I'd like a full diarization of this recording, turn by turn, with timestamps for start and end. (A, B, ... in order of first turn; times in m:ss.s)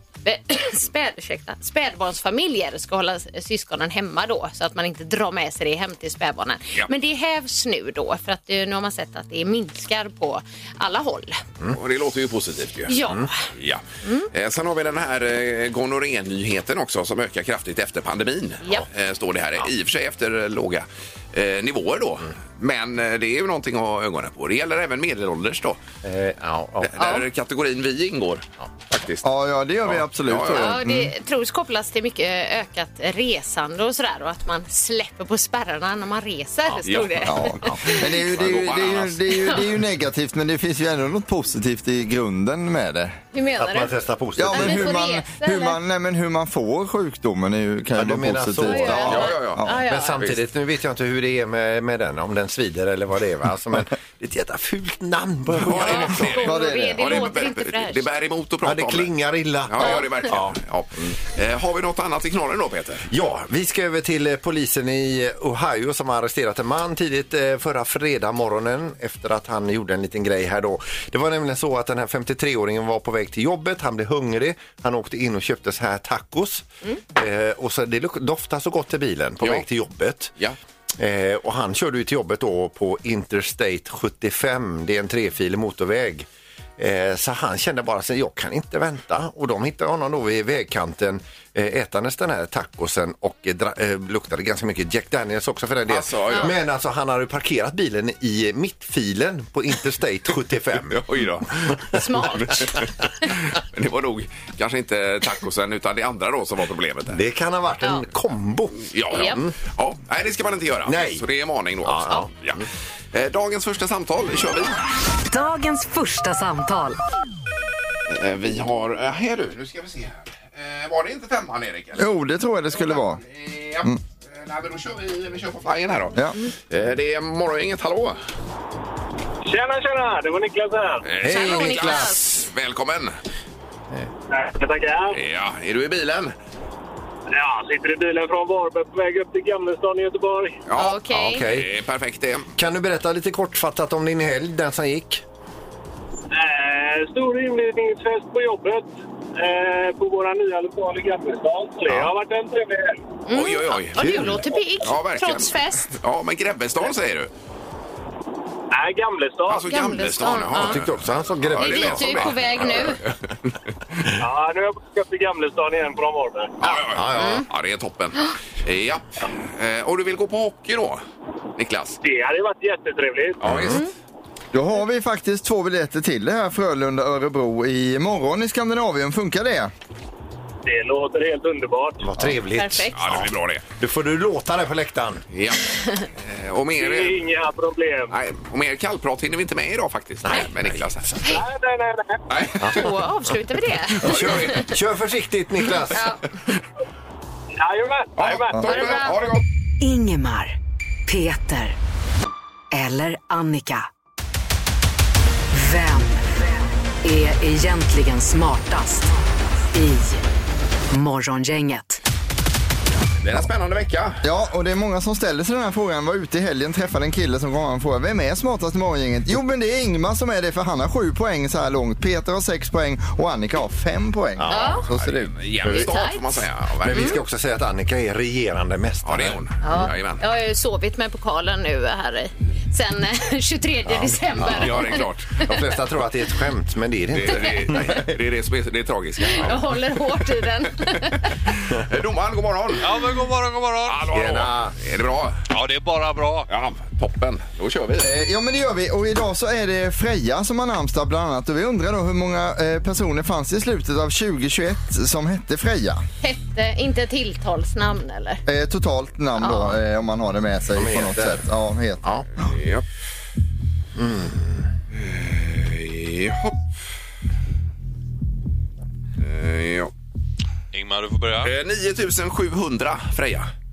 0:00.2-0:11.4 A
0:11.7-0:25.8 B
0:12.9-0:13.3 A
0:14.0-0:14.3 A
0:26.0-0:26.9 C
0:26.8-0:29.2 B
0:27.0-0:27.2 A
0:29.2-0:31.1 D
0:29.8-0:30.8 B
0:30.5-0:38.2 A
0:36.8-0:39.2 B
0:37.2-0:43.2 D
0:43.3-0:43.9 A
0:43.6-0:44.9 C
0:44.4-0:49.7 D
0:44.5-0:45.8 A
0:47.9-0:56.4 C
0:48.6-0:50.2 A
0:49.1-0:49.6 B
0:55.6-0:59.1 B
0:55.8-0:58.0 A
0:56.4-0:57.2 D
0:58.6-1:00.6 C
0:59.7-1:03.1 B
1:03.1-1:20.3 C
1:21.0-1:26.3 C
1:26.8-1:41.0 C
1:35.9-1:36.6 B
1:40.9-1:47.2 B
1:41.9-1:42.8 A
1:47.1-1:49.5 C
1:48.9-1:52.6 B
1:49.1-1:49.4 A
1:50.8-1:51.2 C
1:51.8-1:52.6 C
1:53.1-1:54.8 B
1:55.3-1:57.0 E
1:58.1-2:02.0 B
2:02.0-2:03.2 D
2:02.7-2:06.2 B
2:06.7-2:08.2 B
2:09.4-2:11.0 F
2:11.0-2:13.1 B
2:11.2-2:12.1 C
2:11.2-2:12.2 A
2:14.3-2:15.2 F
2:15.1-2:16.3 B
2:17.3-2:20.6 F
2:20.7-2:22.5 B
2:20.8-2:21.4 A
2:21.2-2:21.7 C
2:22.5-2:25.2 C
2:26.3-2:33.0 F
2:33.2-2:35.9 A
2:33.3-2:37.3 B
2:34.0-2:34.5 C
2:38.7-2:39.7 F
2:39.5-2:43.6 B
2:39.6-2:40.8 A
2:40.5-2:42.5 C
2:41.6-2:43.0 A
2:44.2-2:46.5 F
2:46.6-2:51.0 B
2:46.7-2:47.4 C
2:47.2-2:47.4 A
2:51.6-2:52.0 B
2:52.0-2:53.4 F
2:53.4-2:53.8 B
2:53.4-2:53.8 C
2:54.5-2:59.7 D
3:00.6-3:02.1 F
3:02.0-3:05.2 C
3:02.5-3:03.0 A
3:02.9-3:03.6 B
3:05.3-3:07.2 B
3:06.8-3:08.1 F
3:08.1-3:11.2 B
3:10.2-3:11.2 C
3:11.3-3:12.2 F
3:12.3-3:12.8 B
3:12.6-3:12.9 C
3:12.7-3:14.7 A
3:14.0-3:14.7 B
3:14.0-3:16.1 C
3:15.9-3:16.3 A
3:17.6-3:18.6 F
3:18.2-3:19.4 B
3:18.6-3:19.2 A
3:19.8-3:20.6 E
3:21.1-3:21.8 E
3:22.7-3:23.8 E
3:25.5-3:26.4 E
3:27.0-3:29.1 E
3:29.7-3:30.2 E
3:30.9-3:32.0 E
3:33.2-3:34.2 B
3:34.2-3:45.3 D
3:44.4-3:44.9 C
3:44.5-3:44.8 A
3:44.9-3:47.1 B
3:45.6-3:45.9 C
3:45.7-3:46.4 A
3:46.8-3:49.4 C
3:46.9-3:47.2 A
3:49.0-3:50.2 B
3:49.6-3:55.1 A
3:53.9-3:58.1 C
3:54.4-3:55.3 B
3:57.1-4:00.0 B
3:59.2-4:01.3 A
4:00.9-4:02.8 B
4:02.8-4:04.1 G
4:03.9-4:05.4 B
4:04.1-4:04.7 C
4:05.5-4:06.5 G
4:06.5-4:08.1 B
4:08.0-4:16.0 D
4:16.2-4:18.4 A
4:18.4-4:22.0 D
4:19.4-4:19.8 A
4:20.7-4:21.4 C
4:22.4-4:22.8 B
4:24.0-4:24.7 C
4:24.9-4:26.6 B
4:29.2-4:29.9 B
4:30.7-4:31.5 G
4:31.4-4:33.5 B